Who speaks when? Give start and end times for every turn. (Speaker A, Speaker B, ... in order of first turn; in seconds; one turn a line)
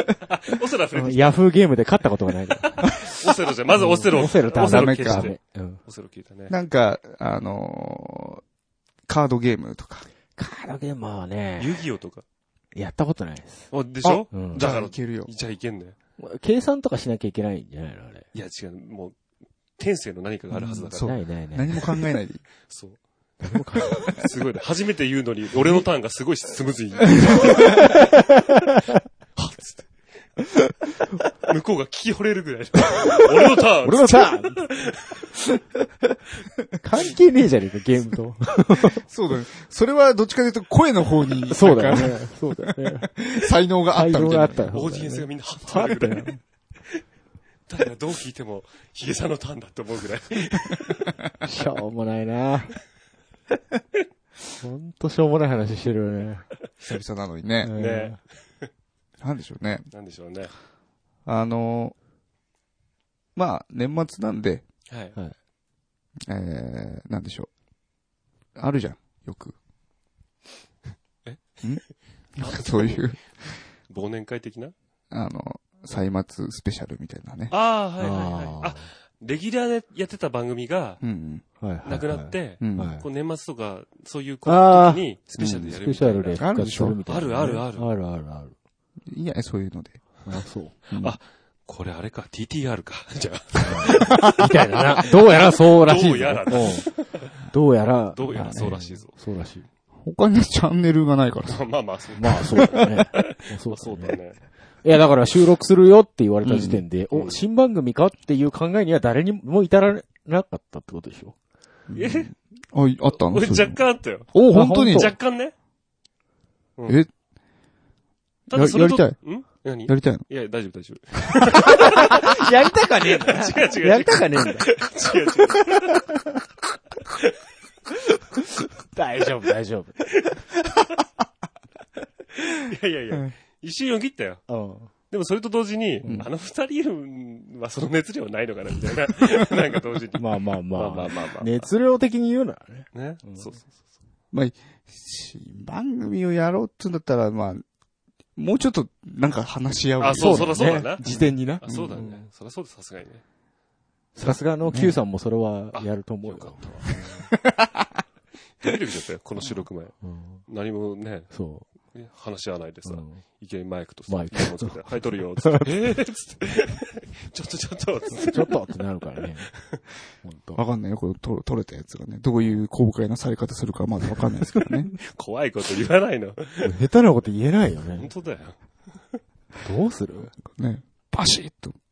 Speaker A: 0.3-1.4
Speaker B: 0.9-2.9
Speaker A: 2.6-6.5
Speaker B: 3.7-5.8
Speaker C: 4.5-5.3
Speaker C: 6.5-8.4
Speaker C: 9.1-10.1
Speaker B: 10.4-11.8
Speaker A: 11.6-12.2
Speaker B: 12.7-13.7
Speaker A: 13.7-15.9
Speaker C: 14.0-15.3
Speaker B: 14.3-14.7
Speaker B: 16.2-18.2
Speaker A: 18.3-19.1
Speaker A: 19.8-21.1
Speaker C: 20.6-22.4
Speaker B: 20.9-21.9
Speaker A: 22.7-23.0
Speaker B: 23.4-24.2
Speaker A: 24.1-28.1
Speaker A: 29.4-29.9
Speaker A: 31.4-35.2
Speaker B: 33.8-34.6
Speaker B: 36.8-39.0
Speaker C: 39.0-44.8
Speaker B: 41.5-43.1
Speaker B: 43.9-46.4
Speaker A: 44.7-46.3
Speaker A: 47.7-51.1
Speaker B: 51.4-52.8
Speaker B: 54.6-56.4
Speaker C: 56.8-57.7
Speaker B: 57.6-58.2
Speaker A: 57.7-58.7
Speaker C: 59.2-59.9
Speaker A: 59.9-60.5
Speaker C: 61.2-61.9
Speaker C: 63.4-64.6
Speaker A: 64.9-65.1
Speaker C: 66.3-67.5
Speaker C: 68.5-69.5
Speaker A: 71.2-71.6
Speaker C: 72.3-73.2
Speaker A: 72.4-73.1
Speaker A: 73.9-74.7
Speaker C: 75.1-77.5
Speaker A: 77.5-81.0
Speaker B: 78.0-78.8
Speaker C: 81.0-81.4
Speaker B: 81.6-83.0
Speaker A: 81.8-86.4
Speaker C: 82.6-82.9
Speaker B: 84.5-85.1
Speaker C: 85.4-85.7
Speaker B: 85.7-88.5
Speaker C: 86.4-87.0
Speaker A: 87.1-87.9
Speaker C: 89.1-90.0
Speaker B: 90.3-90.8
Speaker A: 90.9-97.3
Speaker C: 90.9-91.2
Speaker B: 93.6-96.9
Speaker C: 93.8-94.5
Speaker B: 97.5-99.7
Speaker A: 98.1-99.1
Speaker C: 98.3-98.8
Speaker C: 100.0-101.6
Speaker A: 101.5-104.4
Speaker B: 102.2-104.2
Speaker B: 104.8-111.3
Speaker C: 106.4-106.8
Speaker A: 107.1-107.4
Speaker C: 111.9-115.1
Speaker A: 111.9-112.3
Speaker A: 113.2-115.5
Speaker B: 114.4-115.1
Speaker A: 116.8-117.0
Speaker A: 118.5-122.4
Speaker C: 118.5-119.3
Speaker C: 119.8-120.2
Speaker B: 121.6-124.8
Speaker A: 123.2-126.0
Speaker A: 127.1-127.3
Speaker B: 128.9-130.1
Speaker A: 132.5-134.4
Speaker B: 134.5-134.9
Speaker A: 135.1-141.7
Speaker B: 140.2-143.4
Speaker A: 142.9-143.7
Speaker C: 144.3-147.6
Speaker C: 148.4-151.9
Speaker A: 150.0-151.1
Speaker B: 150.1-152.2
Speaker A: 151.6-153.2
Speaker B: 154.1-157.0
Speaker C: 154.2-155.0
Speaker A: 155.7-157.2
Speaker C: 157.4-157.8
Speaker A: 158.6-159.9
Speaker B: 160.0-160.4
Speaker A: 160.5-168.6
Speaker B: 161.3-161.7
Speaker B: 162.8-163.2
Speaker B: 164.1-164.9
Speaker B: 168.1-169.5
Speaker B: 170.2-170.6
Speaker C: 170.6-174.9
Speaker A: 174.9-176.8
Speaker B: 176.6-178.1
Speaker A: 177.9-178.6
Speaker B: 179.6-180.3
Speaker C: 180.5-181.7